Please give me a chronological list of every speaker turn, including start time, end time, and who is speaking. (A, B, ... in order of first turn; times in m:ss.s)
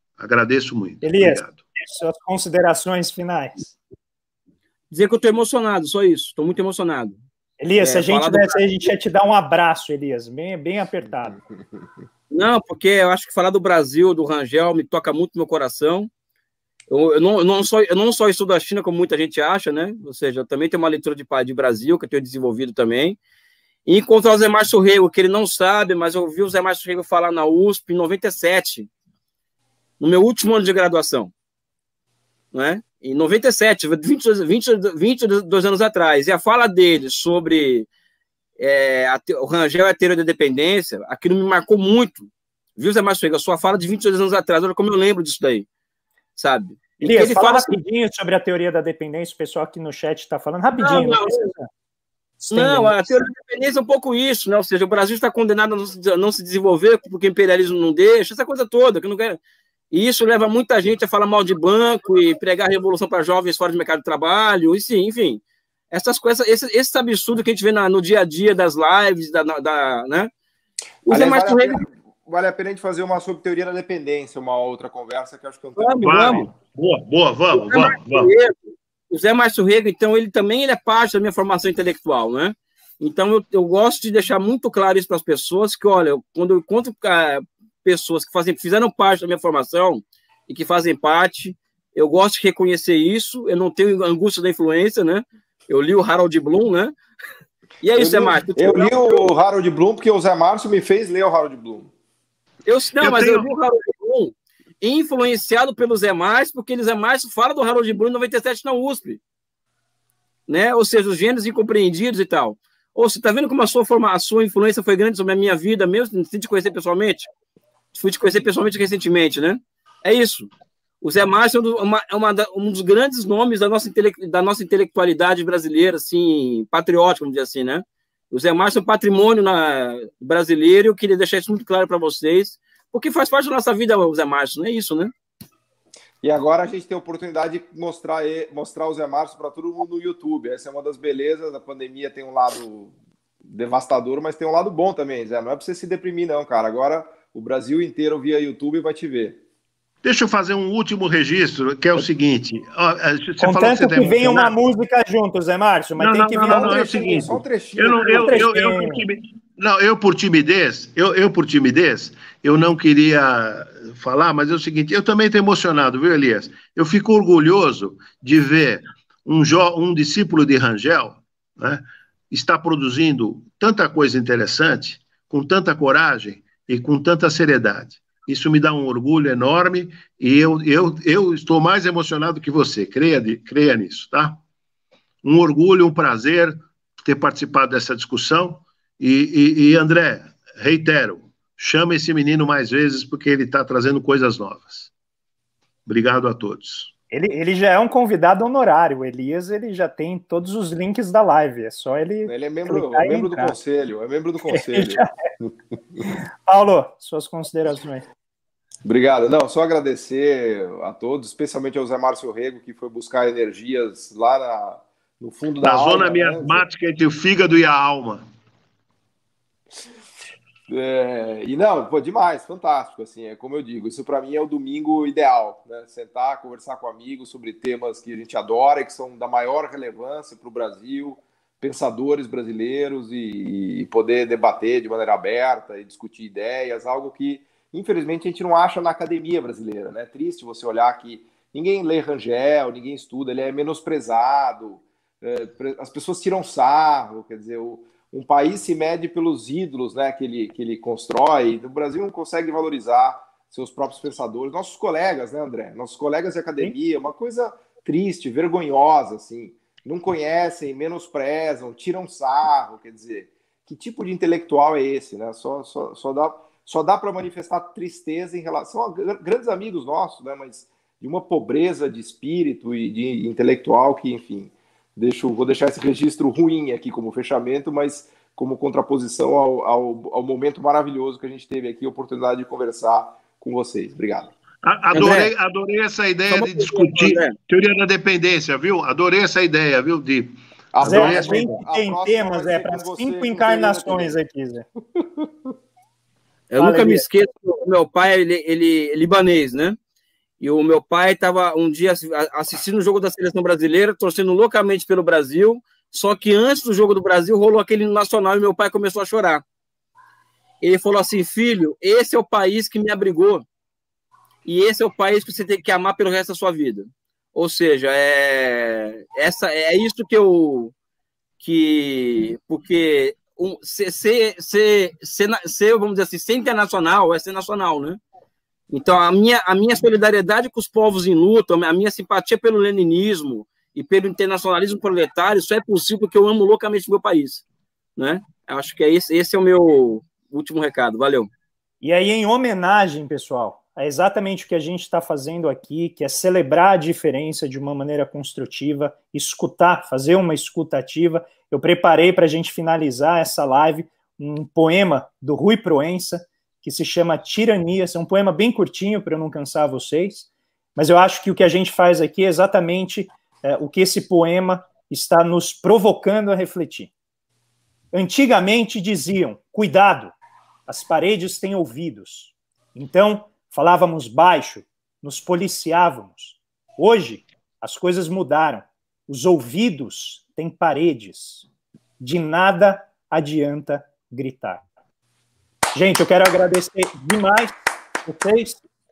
0:00.2-0:01.6 A
0:01.0-0:03.8 B
0:04.9-0:07.2 C
0:07.6-0:11.4 B
0:07.8-0:08.6 C
0:12.3-0:16.1 C
0:16.9-0:23.2 C
0:23.9-0:28.9 C
0:30.0-0:31.3 C
0:32.5-0:37.9 C
0:38.6-0:45.7 C
0:46.4-0:47.7 C
0:47.0-0:51.7 B
0:50.8-0:51.5 C
0:52.4-0:53.2 B
0:52.5-0:59.4 C
0:59.9-1:10.3 C
1:11.1-1:11.8 C
1:11.1-1:16.5 D
1:15.8-1:16.5 C
1:16.0-1:18.3 A
1:17.5-1:37.0 C
1:37.8-1:39.3 C
1:38.0-1:41.9 D
1:42.7-1:49.2 C
1:43.0-1:43.5 A
1:50.5-1:57.3 C
1:57.9-2:00.5 C
2:01.0-2:15.1 C
2:16.2-2:22.9 D
2:23.4-2:29.4 D
2:30.0-2:34.5 A
2:33.4-2:36.8 B
2:36.0-3:04.4 A
2:36.4-2:38.5 D
2:38.1-2:39.0 B
3:05.2-3:14.9 A
3:15.9-3:16.9 A
3:17.1-3:23.6 B
3:22.3-3:25.5 D
3:24.5-3:25.1 B
3:26.5-3:28.1 B
3:28.8-3:36.6 D
3:35.6-3:38.3 A
3:40.7-4:44.3 D
4:44.6-4:51.5 A
4:44.9-4:45.3 C
4:46.3-4:47.4 C
4:50.7-4:54.2 D
4:50.8-4:54.6 B
4:55.0-4:55.3 D
4:56.5-4:59.8 C
4:56.6-4:57.1 B
5:00.4-5:09.4 C
5:10.6-5:13.4 C
5:14.4-5:20.7 C
5:21.4-5:28.0 C
5:28.7-5:37.4 C
5:38.0-5:41.3 C
5:41.8-6:06.9 B
6:07.9-6:10.2 B
6:10.7-6:21.4 B
6:22.0-6:24.7 B
6:25.8-6:27.5 B
6:28.0-6:28.6 B